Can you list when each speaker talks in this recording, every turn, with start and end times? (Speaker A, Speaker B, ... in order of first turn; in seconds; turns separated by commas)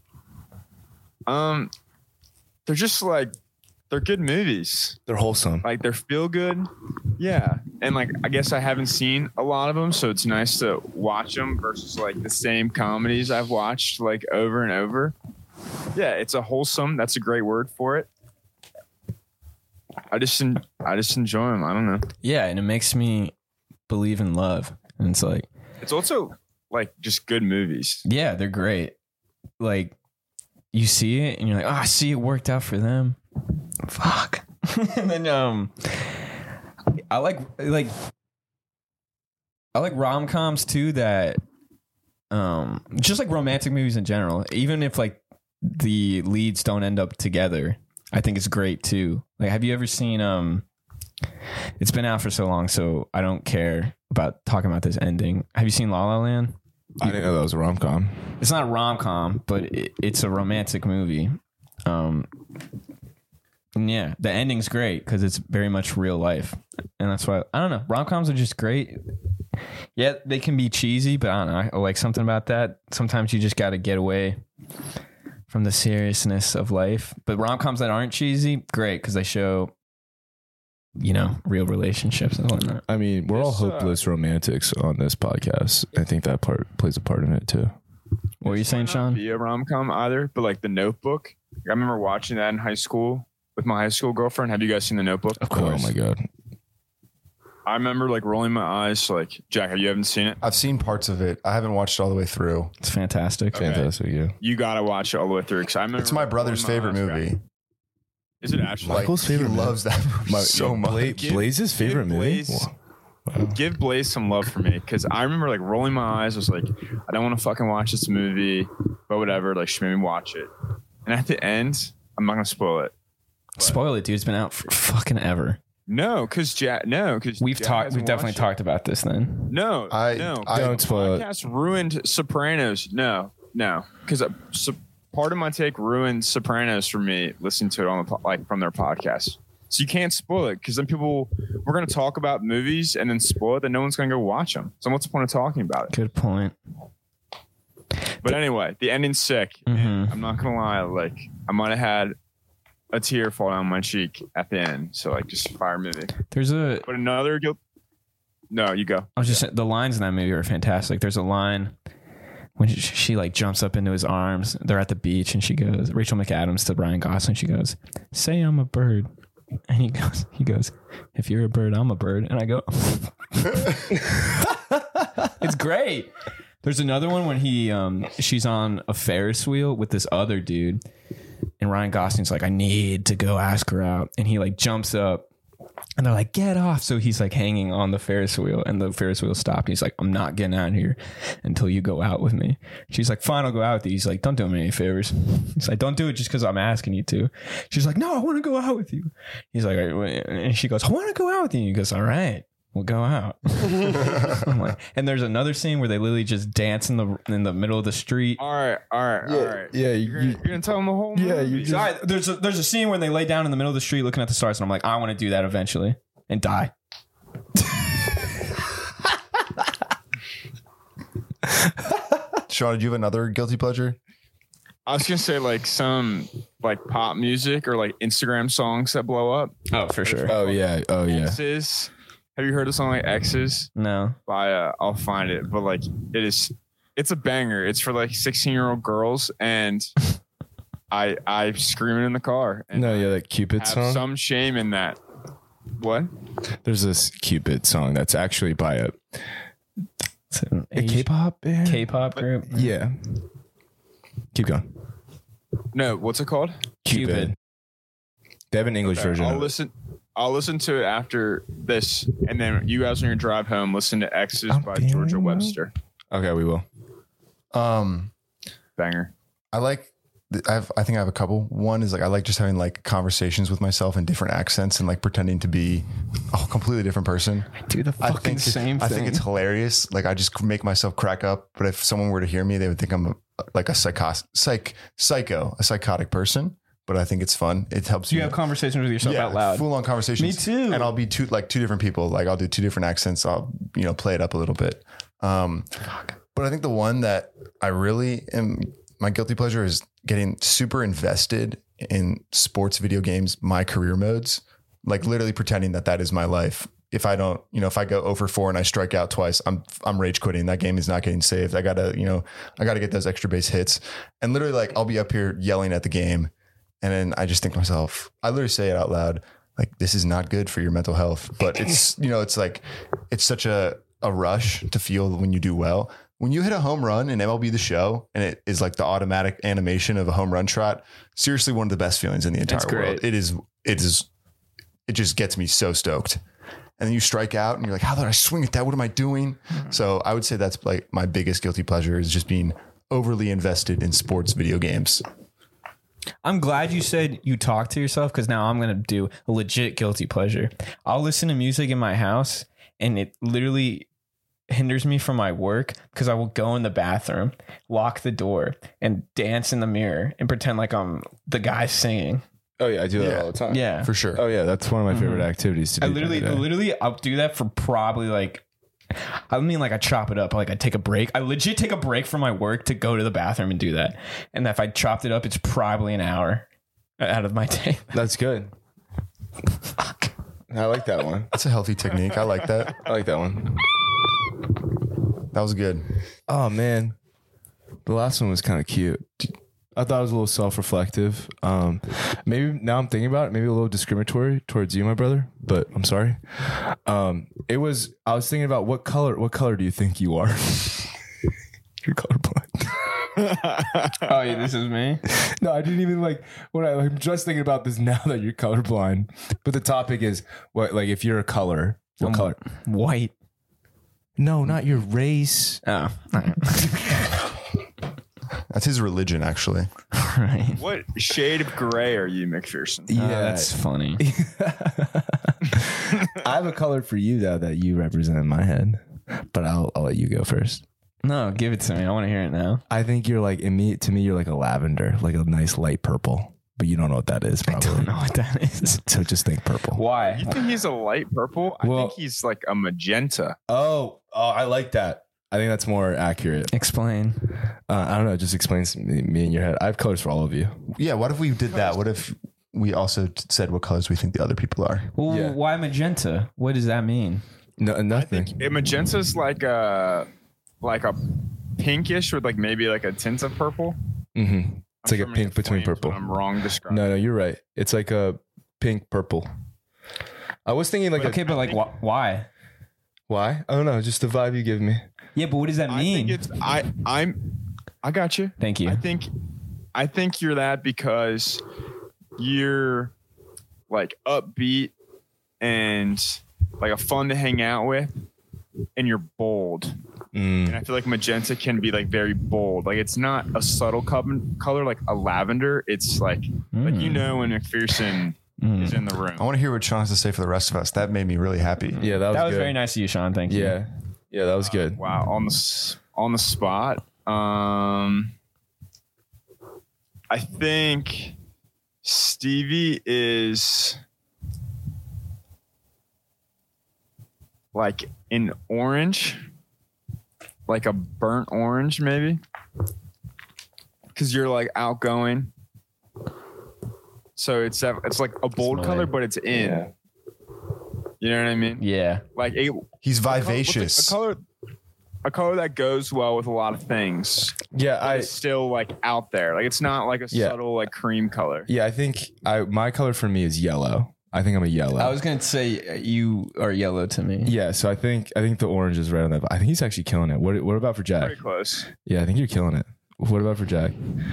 Speaker A: 1.3-1.7, Speaker A: 2.7-3.3, Speaker A: 3.9-5.0, Speaker B: 5.1-5.6, Speaker A: 5.6-15.1, Speaker A: 15.9-18.1, Speaker A: 20.1-22.1, Speaker C: 22.2-23.3, Speaker C: 23.9-25.5, Speaker A: 25.8-28.0, Speaker C: 28.0-28.9, Speaker C: 29.6-29.9, Speaker C: 30.7-33.2, Speaker C: 33.9-36.2, Speaker C: 37.1-37.9, Speaker C: 39.7-41.4, Speaker C: 42.3-50.6, Speaker C: 51.8-57.2, Speaker B: 57.0-58.3, Speaker C: 58.4-62.3, Speaker C: 63.8-69.0, Speaker C: 70.0-74.4, Speaker C: 75.5-79.7, Speaker C: 81.0-82.8, Speaker B: 82.9-87.8, Speaker A: 83.3-84.0, Speaker C: 88.4-89.2, Speaker A: 88.4-95.9, Speaker B: 95.4-96.2, Speaker A: 97.7-100.4, Speaker D: 100.4-102.7, Speaker C: 102.8-103.6, Speaker B: 103.5-104.3, Speaker A: 103.5-107.2, Speaker D: 106.0-107.4, Speaker A: 108.4-109.1, Speaker B: 108.8-112.7, Speaker D: 108.9-111.2, Speaker A: 111.1-112.7, Speaker B: 113.3-113.6, Speaker A: 113.5-120.5, Speaker A: 121.0-122.9, Speaker C: 123.6-125.6, Speaker A: 125.9-128.5, Speaker C: 127.4-129.5, Speaker A: 129.5-145.9, Speaker D: 129.9-130.8, Speaker B: 130.5-131.2, Speaker C: 145.9-146.5, Speaker A: 148.2-152.2, Speaker C: 149.7-150.1, Speaker A: 152.9-156.1, Speaker C: 156.3-156.9, Speaker A: 156.8-157.6, Speaker A: 158.5-159.4, Speaker C: 159.2-161.7, Speaker C: 162.6-169.1, Speaker C: 169.7-174.0, Speaker C: 175.4-176.1, Speaker C: 176.6-180.8, Speaker C: 181.6-185.2, Speaker C: 186.0-208.4, Speaker A: 208.4-211.8, Speaker B: 209.2-210.4, Speaker B: 211.1-211.9, Speaker C: 211.6-216.7, Speaker B: 221.5-222.1, Speaker D: 222.5-224.0, Speaker A: 224.8-233.7, Speaker C: 229.7-230.4, Speaker B: 230.3-231.4, Speaker C: 233.8-234.2, Speaker A: 234.3-239.9, Speaker A: 240.9-245.0, Speaker B: 242.7-244.0, Speaker A: 245.8-246.1, Speaker B: 246.6-249.2, Speaker C: 250.3-251.1, Speaker B: 250.7-251.8, Speaker C: 251.6-252.7, Speaker B: 252.5-253.2, Speaker B: 254.3-254.7, Speaker A: 255.7-256.6, Speaker B: 256.8-257.4, Speaker C: 256.9-257.3, Speaker B: 258.5-259.5, Speaker A: 258.8-265.7, Speaker B: 264.5-265.6, Speaker B: 266.1-266.6, Speaker D: 267.5-268.1, Speaker A: 268.8-269.1, Speaker D: 269.5-288.4, Speaker C: 277.7-279.2, Speaker C: 288.1-290.9, Speaker D: 289.0-295.7, Speaker D: 296.3-316.3, Speaker D: 316.8-334.1, Speaker C: 332.5-333.0, Speaker D: 334.9-336.2, Speaker D: 336.8-345.0, Speaker C: 346.2-353.9, Speaker C: 354.5-362.2, Speaker B: 362.6-366.4, Speaker D: 362.9-364.2, Speaker C: 363.5-363.9, Speaker C: 364.9-365.3, Speaker C: 365.8-368.4, Speaker C: 368.9-376.4, Speaker C: 377.0-377.9, Speaker B: 377.9-378.5, Speaker B: 380.5-381.3, Speaker D: 381.3-382.8, Speaker B: 382.8-383.8, Speaker D: 385.3-385.9, Speaker B: 386.3-386.9, Speaker B: 387.9-400.9, Speaker B: 401.8-402.8, Speaker A: 403.2-404.0, Speaker C: 404.0-405.0, Speaker B: 405.1-412.4, Speaker C: 412.0-413.1, Speaker B: 414.2-415.6, Speaker C: 415.6-417.1, Speaker D: 418.5-419.7, Speaker C: 419.9-420.6, Speaker A: 420.6-422.9, Speaker B: 422.9-430.6, Speaker C: 423.0-424.0, Speaker C: 431.0-432.6, Speaker B: 432.7-437.9, Speaker C: 437.4-438.9, Speaker B: 438.8-439.8, Speaker C: 439.7-440.4, Speaker A: 439.9-443.4, Speaker B: 441.6-442.0, Speaker B: 443.5-446.5, Speaker C: 446.5-447.3, Speaker B: 447.7-450.6, Speaker D: 450.7-454.9, Speaker C: 454.9-457.2, Speaker B: 455.1-455.4, Speaker B: 457.6-458.3, Speaker A: 457.9-460.1, Speaker A: 460.6-463.8, Speaker B: 464.1-466.0, Speaker A: 464.8-467.0, Speaker B: 466.7-469.3, Speaker B: 470.4-471.2, Speaker A: 470.9-471.6, Speaker C: 471.0-472.3, Speaker B: 473.1-474.9, Speaker C: 475.1-476.2, Speaker A: 475.7-479.1, Speaker C: 478.4-478.8, Speaker A: 479.7-481.4, Speaker A: 482.2-482.9, Speaker A: 483.7-484.7, Speaker A: 485.4-487.9, Speaker A: 488.8-489.7, Speaker B: 490.1-490.6, Speaker A: 490.4-499.3, Speaker C: 496.5-497.1, Speaker C: 498.4-498.8, Speaker D: 499.2-501.8, Speaker B: 501.8-502.6, Speaker C: 501.8-503.6, Speaker B: 503.3-504.8, Speaker A: 504.4-508.1, Speaker A: 510.1-511.1, Speaker A: 511.8-513.8, Speaker A: 517.5-519.2, Speaker A: 520.5-522.2, Speaker A: 523.9-525.3, Speaker A: 527.1-529.7, Speaker C: 528.4-528.9, Speaker B: 529.3-529.7, Speaker A: 531.0-531.6, Speaker C: 531.6-532.0, Speaker A: 532.1-534.2, Speaker D: 532.8-534.0, Speaker A: 535.0-541.5, Speaker B: 537.5-538.1, Speaker B: 540.1-540.4, Speaker B: 541.5-545.0, Speaker C: 544.8-547.3, Speaker B: 547.2-551.1, Speaker A: 551.0-551.7, Speaker B: 551.8-553.7